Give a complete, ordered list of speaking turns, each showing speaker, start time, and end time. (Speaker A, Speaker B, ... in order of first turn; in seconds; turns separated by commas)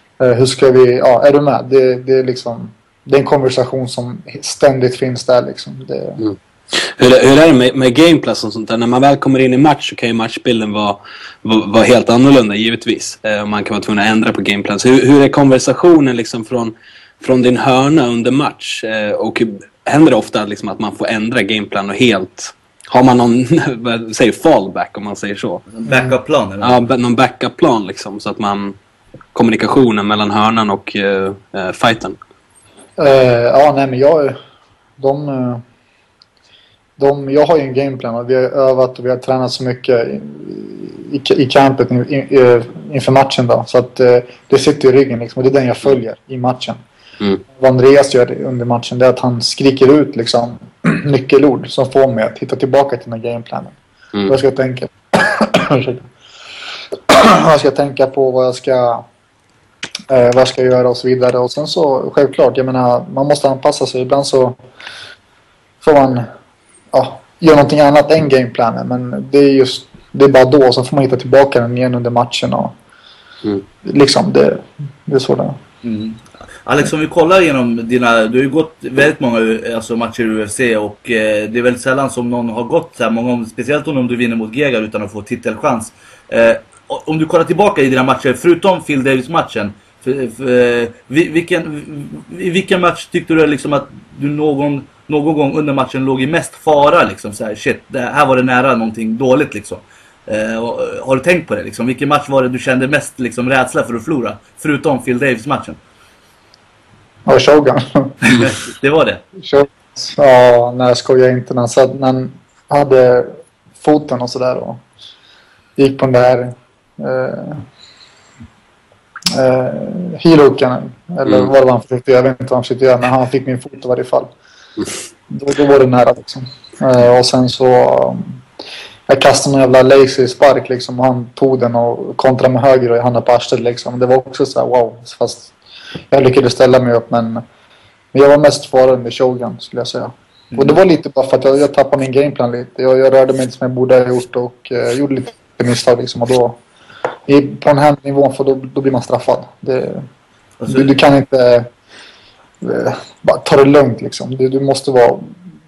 Speaker A: 0.2-6.2, Speaker B: 6.2-25.6, Speaker C: 25.7-26.8, Speaker B: 26.6-28.8, Speaker B: 29.3-32.2, Speaker A: 33.0-34.4, Speaker A: 35.0-35.6, Speaker A: 37.0-46.8, Speaker A: 47.5-53.8, Speaker A: 54.3-56.1, Speaker A: 57.1-59.0, Speaker A: 60.1-64.6, Speaker A: 65.8-66.3, Speaker A: 66.9-72.7, Speaker A: 73.8-75.6, Speaker C: 75.8-105.8, Speaker A: 107.2-108.1, Speaker C: 108.2-109.2, Speaker A: 109.4-114.8, Speaker A: 115.8-117.6, Speaker A: 119.3-124.3, Speaker A: 125.3-128.4, Speaker A: 129.1-135.5, Speaker A: 136.1-137.4, Speaker A: 138.1-146.6, Speaker C: 140.5-140.8, Speaker A: 147.3-150.1, Speaker C: 150.6-150.9, Speaker A: 150.7-151.7, Speaker A: 152.6-155.4